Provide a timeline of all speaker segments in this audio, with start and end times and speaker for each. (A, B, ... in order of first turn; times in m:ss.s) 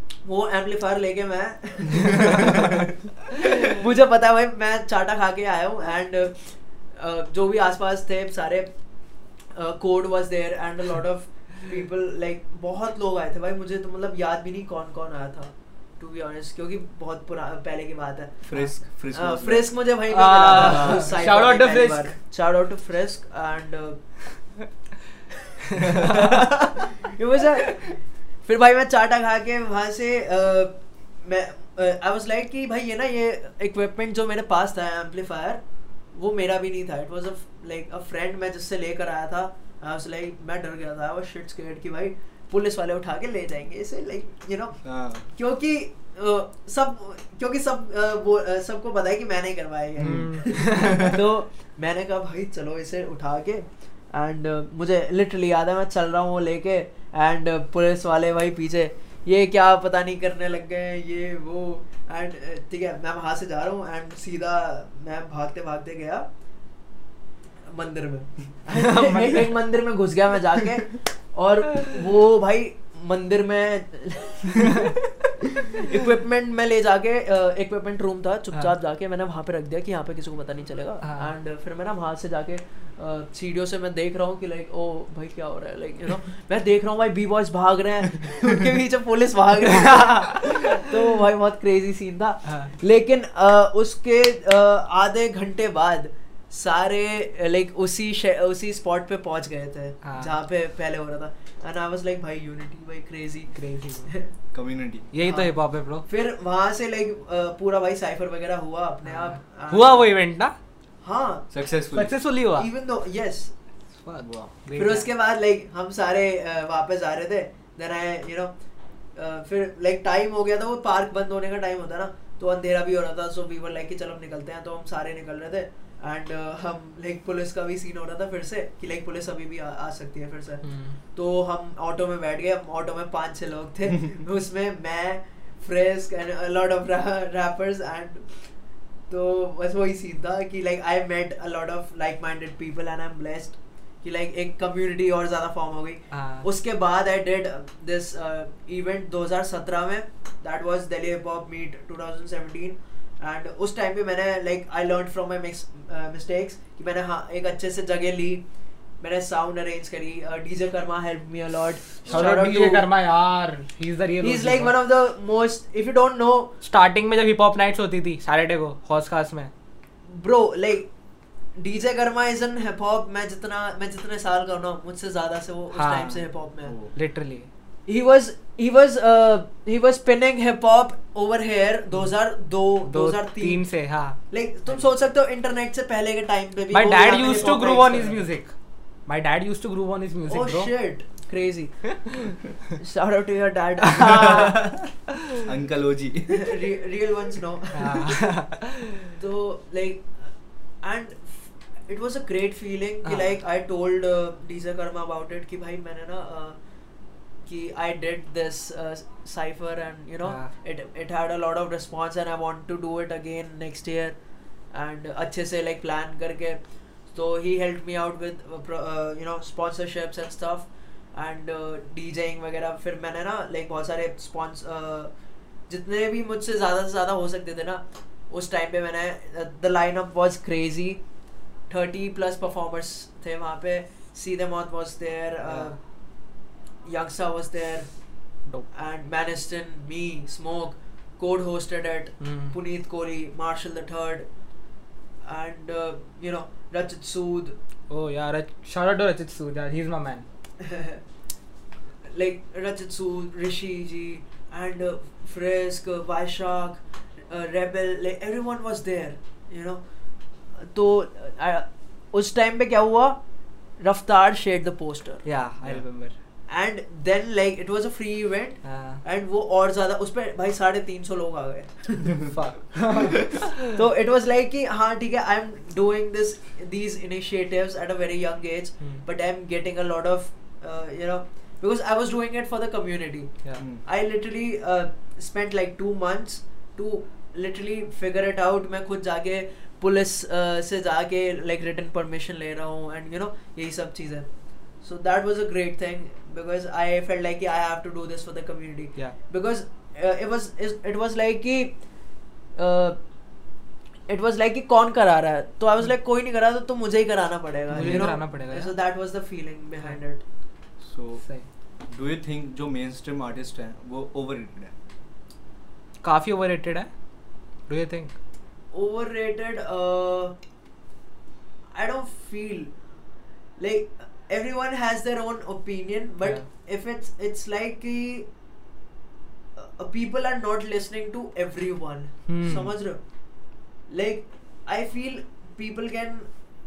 0:00.2-0:08.7 A
0:02.3-0:02.6 B
0:09.5-0:18.4 A
0:18.5-0:19.7 B
0:19.1-0:24.0 A
0:20.1-0:22.1 C
0:20.5-0:21.1 B
0:25.4-0:35.6 A
0:25.7-0:26.8 C
0:36.1-1:06.3 A
0:44.8-0:45.2 B
0:50.0-0:51.2 B
0:50.0-0:51.1 C
1:07.7-1:43.5 A
1:08.7-1:09.6 C
1:14.6-1:15.0 C
1:21.0-1:21.3 C
1:29.7-1:30.9 C
1:40.0-1:40.3 C
1:43.5-1:44.1 C
1:44.0-1:44.3 A
1:44.5-1:45.1 B
1:45.1-1:46.0 C
1:45.2-1:45.5 A
1:46.1-1:50.1 A
1:49.0-1:50.5 C
1:51.0-1:51.5 A
1:51.5-1:52.2 B
1:51.9-1:52.7 C
1:52.5-1:53.5 A
1:54.0-1:55.1 C
1:54.2-1:54.5 B
1:54.7-1:58.5 A
1:59.2-2:10.6 A
2:10.6-2:11.0 C
2:11.1-2:18.5 A
2:19.1-2:38.4 A
2:26.1-2:26.4 C
2:39.0-2:42.8 A
2:42.0-2:44.7 C
2:44.2-2:46.5 A
2:46.6-2:49.5 C
2:50.0-2:50.9 A
2:51.6-2:56.7 A
2:55.7-2:56.3 C
2:56.6-2:56.9 B
2:56.9-2:57.5 C
2:57.9-3:03.6 A
3:02.8-3:04.2 C
3:04.3-3:08.2 A
3:06.7-3:08.5 C
3:09.1-3:10.7 C
3:10.3-3:14.6 A
3:13.8-3:14.7 C
3:15.4-3:16.6 B
3:16.3-3:18.2 A
3:17.7-3:19.1 C
3:19.2-3:20.3 A
3:20.8-3:26.6 A
3:23.0-3:23.3 C
3:27.4-3:34.2 A
3:30.2-3:30.5 C
3:34.7-3:36.6 A
3:37.1-3:45.1 A
3:45.7-3:51.0 A
3:51.7-3:55.8 A
3:56.8-3:57.9 A
3:58.7-4:04.2 A
4:02.2-4:02.6 C
4:05.2-4:07.6 A
4:07.9-4:10.2 C
4:10.6-4:11.0 A
4:12.1-4:19.8 A
4:20.6-4:23.2 A
4:23.8-4:25.2 A
4:25.2-4:26.1 C
4:26.5-4:32.3 A
4:28.6-4:29.0 C
4:32.2-4:33.7 C
4:32.9-4:43.3 A
4:43.6-4:43.8 B
4:43.8-4:54.3 A
4:54.8-5:01.7 A
5:02.6-5:03.0 A
5:04.1-5:10.2 A
5:07.7-5:08.7 C
5:07.7-5:08.1 B
5:10.8-5:11.2 B
5:11.9-5:14.7 B
5:16.0-5:16.9 C
5:17.7-5:18.1 C
5:18.7-5:20.4 A
5:21.7-5:22.7 A
5:23.6-5:28.3 A
5:29.5-5:33.0 A
5:32.3-5:32.7 C
5:33.9-5:36.3 A